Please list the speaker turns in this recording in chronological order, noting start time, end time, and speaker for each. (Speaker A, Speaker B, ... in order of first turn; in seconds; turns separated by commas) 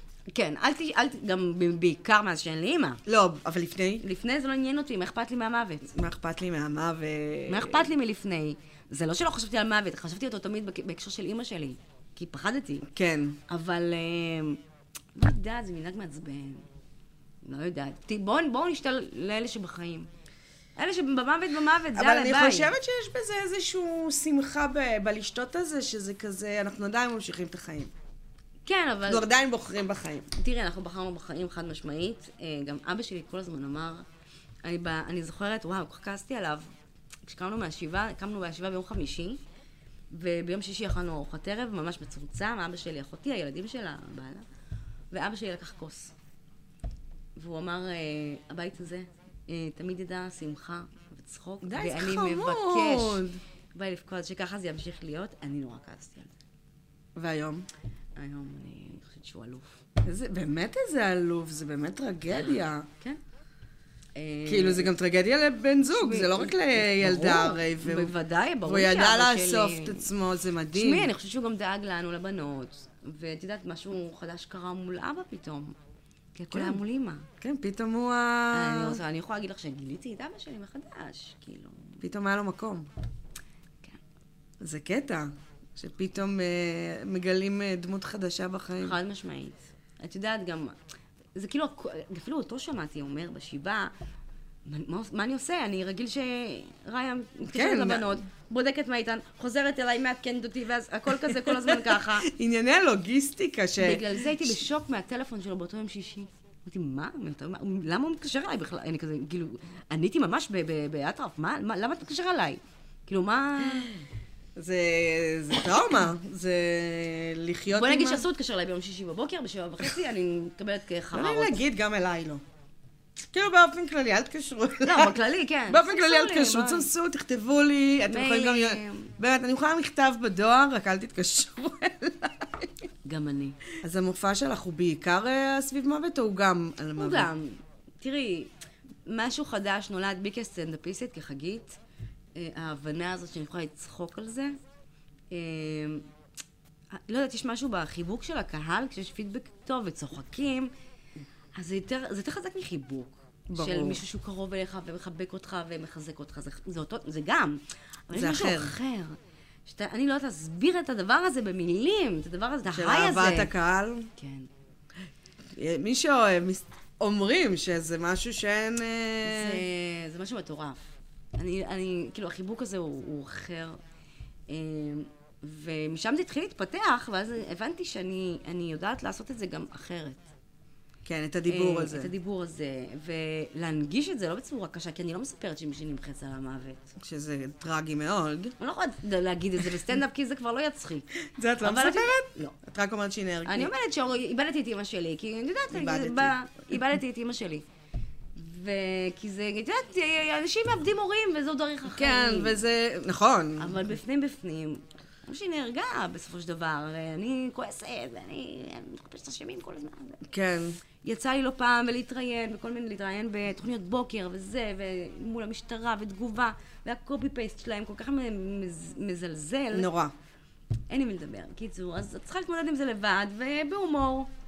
Speaker A: 0.3-3.0, Speaker B: 3.0-4.0, Speaker A: 4.0-5.9, Speaker B: 5.9-7.9, Speaker A: 7.5-12.9, Speaker B: 12.9-13.4, Speaker A: 13.5-14.6, Speaker A: 15.2-16.6, Speaker A: 17.4-20.1, Speaker A: 20.8-22.8, Speaker B: 21.9-27.9, Speaker A: 28.6-29.3, Speaker B: 29.1-30.3, Speaker A: 30.3-34.0, Speaker A: 34.6-36.7, Speaker A: 37.2-39.4, Speaker A: 40.1-44.4, Speaker A: 45.1-46.1, Speaker A: 47.4-56.3, Speaker B: 51.6-53.4, Speaker B: 57.1-57.7, Speaker A: 58.1-59.8, Speaker B: 60.0-62.9, Speaker A: 62.3-63.2, Speaker A: 64.1-64.9, Speaker B: 64.5-71.1, Speaker A: 65.8-70.1, Speaker A: 70.7-75.8, Speaker A: 76.3-77.3, Speaker B: 76.5-76.8, Speaker B: 77.4-79.0, Speaker A: 78.5-82.0, Speaker B: 82.0-82.9, Speaker B: 84.6-89.0, Speaker A: 88.8-90.8, Speaker A: 91.3-93.9, Speaker A: 94.7-102.3, Speaker B: 97.5-98.2, Speaker B: 101.2-104.6, Speaker A: 103.8-113.9, Speaker B: 114.5-118.3, Speaker A: 117.7-121.6, Speaker B: 121.1-122.4, Speaker B: 123.3-132.7, Speaker A: 124.8-126.9, Speaker A: 128.1-129.1, Speaker A: 133.0-133.6, Speaker B: 133.8-137.3, Speaker A: 137.0-138.5, Speaker A: 139.1-141.8, Speaker A: 142.3-144.6, Speaker A: 145.3-146.1, Speaker A: 146.9-150.7, Speaker A: 151.5-163.5, Speaker B: 153.5-154.0, Speaker B: 158.1-158.8, Speaker B: 162.7-164.1, Speaker A: 164.2-164.5, Speaker B: 165.5-169.6, Speaker A: 169.2-173.8, Speaker A: 174.5-180.2, Speaker B: 181.0-182.1, Speaker A: 181.5-186.9, Speaker B: 187.0-188.5, Speaker A: 188.6-192.6, Speaker B: 191.2-193.7, Speaker A: 193.4-197.6, Speaker B: 195.7-196.3, Speaker A: 198.3-202.6, Speaker B: 201.9-203.8, Speaker A: 203.6-210.2, Speaker B: 210.3-210.8, Speaker A: 211.0-219.9, Speaker B: 219.7-220.1, Speaker A: 220.9-224.3